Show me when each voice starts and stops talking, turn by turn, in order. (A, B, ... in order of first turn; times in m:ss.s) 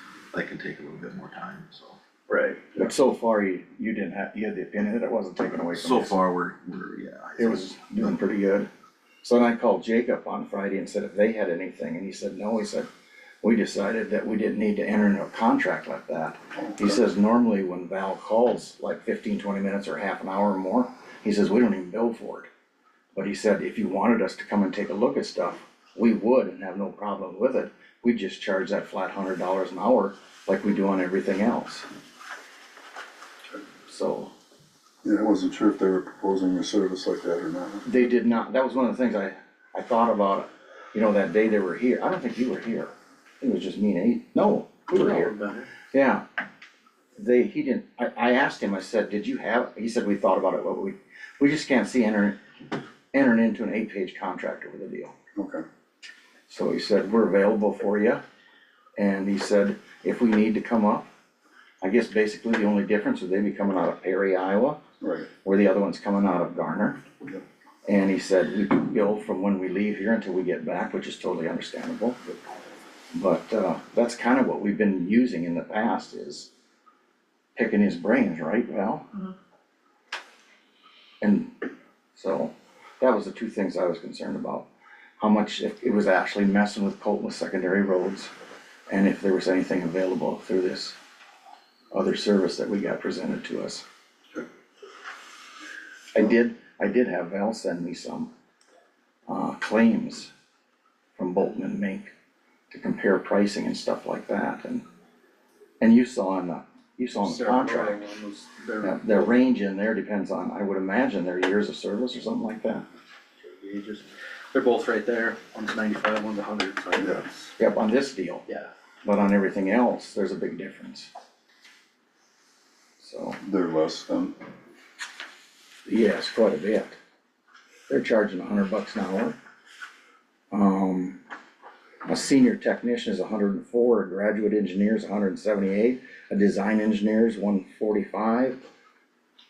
0:00.3-0:02.0 A
0:02.3-0:02.9 B
0:02.7-0:06.2 C
0:05.7-0:08.2 A
0:07.4-0:08.7 C
0:09.2-0:12.9 C
0:13.4-0:22.5 C
0:16.6-0:16.9 D
0:23.2-0:31.9 C
0:33.9-0:34.3 C
0:35.0-0:37.9 D
0:37.9-0:45.4 C
0:44.9-0:45.7 B
0:45.9-0:46.2 C
0:47.2-0:52.4 C
0:53.1-0:55.1 C
0:55.4-0:55.6 D
0:56.5-0:58.2 C
0:59.0-1:01.1 C
1:01.8-1:04.8 C
1:05.0-1:05.3 D
1:05.4-1:07.0 C
1:07.8-1:12.4 C
1:13.1-1:16.5 C
1:17.6-1:19.1 C
1:21.2-1:21.5 C
1:22.1-1:24.7 C
1:25.2-1:28.3 C
1:28.9-1:31.0 C
1:31.9-1:33.8 C
1:36.1-1:38.3 C
1:39.3-1:40.3 C
1:41.2-1:42.1 C
1:42.7-1:44.8 C
1:45.8-1:48.0 C
1:47.2-1:49.0 B
1:48.8-1:52.8 C
1:53.4-1:57.5 B
1:57.6-1:58.4 C
1:59.0-2:01.1 C
2:03.0-2:03.4 C
2:03.4-2:04.4 D
2:05.8-2:07.0 C
2:07.9-2:09.4 C
2:10.5-2:11.2 C
2:12.0-2:18.6 C